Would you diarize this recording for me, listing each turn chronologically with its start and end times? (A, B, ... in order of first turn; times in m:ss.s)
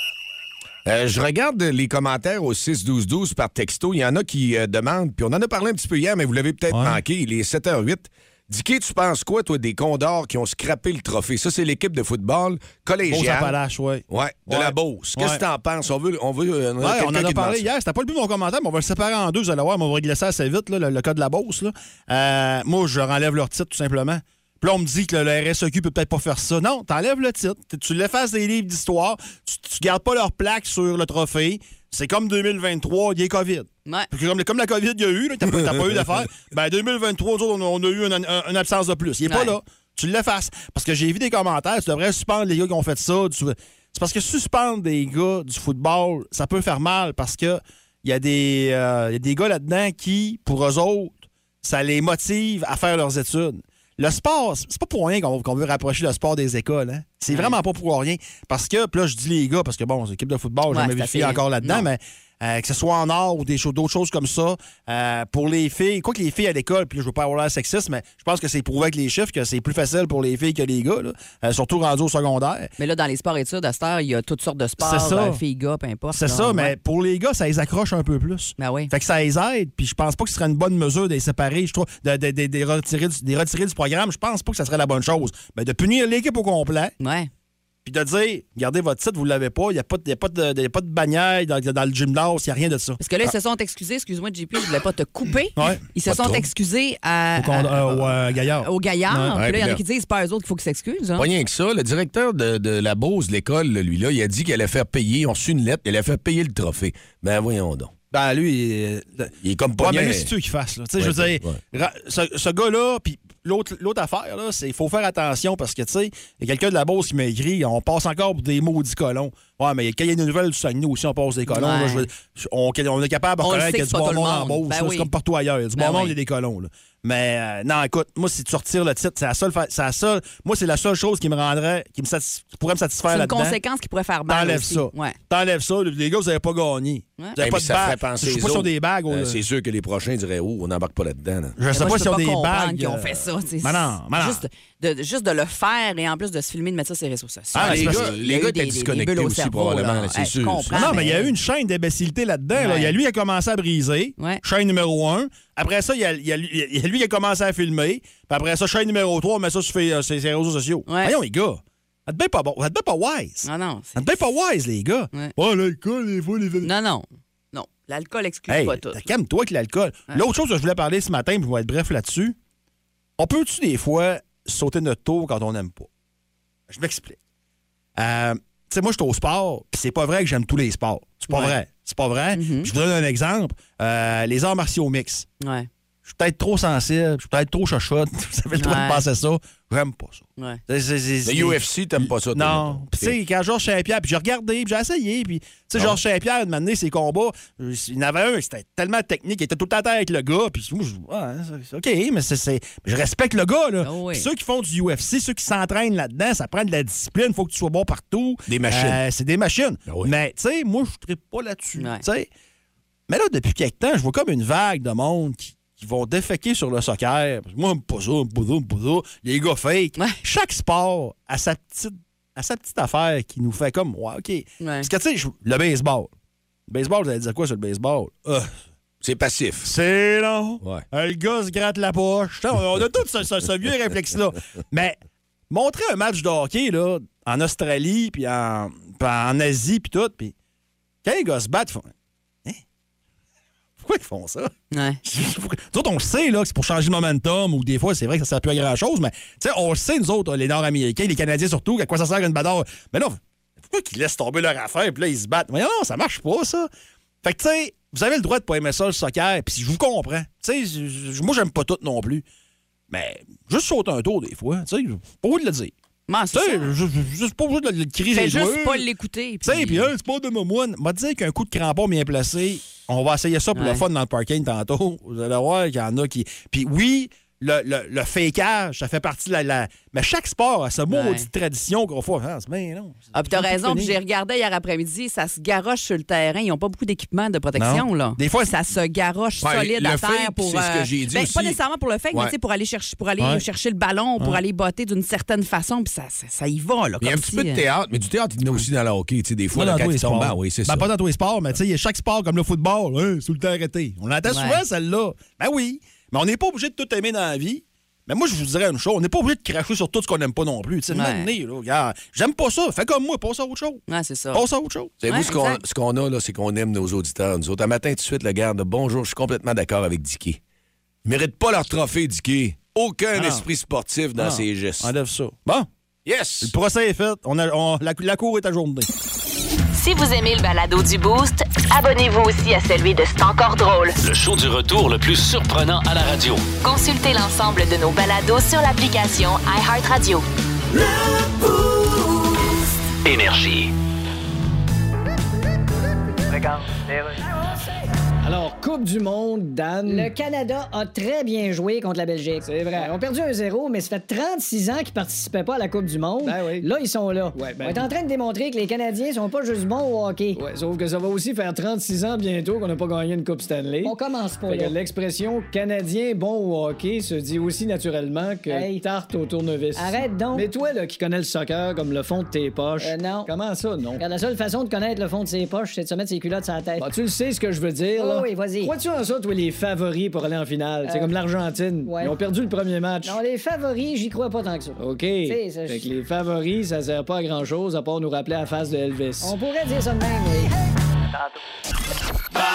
0:00.8-0:13.5 A
0:06.7-0:07.0 B
0:13.1-0:15.4 B
0:14.1-0:17.6 A
0:16.8-1:12.7 B
0:39.3-0:39.6 C
0:57.3-0:57.6 C
1:00.7-1:01.9 C
1:12.8-1:16.8 C
1:14.8-1:15.4 B
1:16.1-1:26.9 B
1:18.6-1:18.9 C
1:27.0-1:27.3 C
1:27.8-1:33.0 B
1:33.0-1:38.1 C
1:35.6-1:35.8 B
1:36.0-1:36.5 A
1:37.4-1:39.4 B
1:38.6-1:41.3 C
1:39.3-1:39.8 A
1:41.2-1:47.9 A
1:48.1-2:13.6 B
1:49.4-1:50.3 A
1:51.0-1:51.6 A
2:01.5-2:02.1 C
2:03.4-2:05.1 C
2:05.8-2:06.2 C
2:13.1-2:15.2 C
2:14.3-2:19.4 B
2:17.4-2:21.6 A
2:21.6-2:24.4 B
2:21.7-2:31.3 C
2:27.5-2:28.1 B
2:27.6-2:31.1 A
2:30.7-2:46.7 B
2:32.6-2:33.0 C
2:34.2-2:34.4 C
2:40.9-2:41.2 C
2:43.4-2:44.1 C
2:46.6-2:49.1 C
2:48.5-2:52.4 B
2:53.2-2:55.9 B
2:56.7-2:57.2 B
2:58.0-3:05.3 B
3:01.3-3:01.6 C
3:02.3-3:02.7 C
3:05.4-3:05.7 C
3:06.1-3:32.3 B
3:08.6-3:09.0 C
3:11.2-3:13.2 A
3:23.8-3:24.3 C
3:28.5-3:29.0 A
3:31.8-3:32.0 C
3:33.1-3:46.1 B
3:44.6-3:44.9 C
3:46.7-3:48.5 B
3:49.0-3:49.7 A
3:49.6-3:55.0 B
3:55.5-4:00.3 B
4:01.0-4:01.9 B
4:03.8-4:04.5 B
4:04.7-4:05.0 C
4:05.0-4:16.7 B
4:17.2-4:22.2 B
4:22.9-4:25.7 B
4:26.1-4:26.7 C
4:26.3-4:28.9 B
4:28.1-4:29.9 C
4:29.4-4:44.0 B
4:33.5-4:33.8 C
4:40.9-4:41.3 C
4:43.1-4:57.6 C
4:47.6-4:48.5 B
4:49.4-4:51.6 A
4:57.0-5:00.9 A
4:59.5-5:15.0 B
5:04.3-5:04.6 C
5:10.9-5:11.3 C
5:13.9-5:14.4 C
5:15.0-5:20.4 A
5:15.1-5:15.6 C
5:21.0-5:24.9 A
5:23.1-5:23.5 B
5:24.2-5:25.7 B
5:26.0-5:26.5 A
5:26.4-5:28.9 B
5:29.7-5:34.0 D
5:34.0-5:36.4 E
5:36.6-5:40.2 D
5:43.0-5:43.7 E
5:46.3-5:47.3 F
5:48.2-5:50.1 G
5:49.8-6:00.4 F
5:52.4-5:53.2 G
5:56.2-5:56.7 G
5:57.3-5:57.9 G
6:00.3-6:14.1 G
6:03.8-6:04.8 F
6:08.5-6:08.8 F
6:09.8-6:10.5 F
6:12.8-6:13.3 F
6:14.0-6:16.9 F
6:16.8-6:23.2 G
6:18.0-6:18.8 F
6:20.8-6:21.1 F
6:21.8-6:22.2 F
6:23.0-6:25.9 F
6:24.8-6:29.4 G
6:29.2-6:30.5 F
6:31.1-6:31.4 F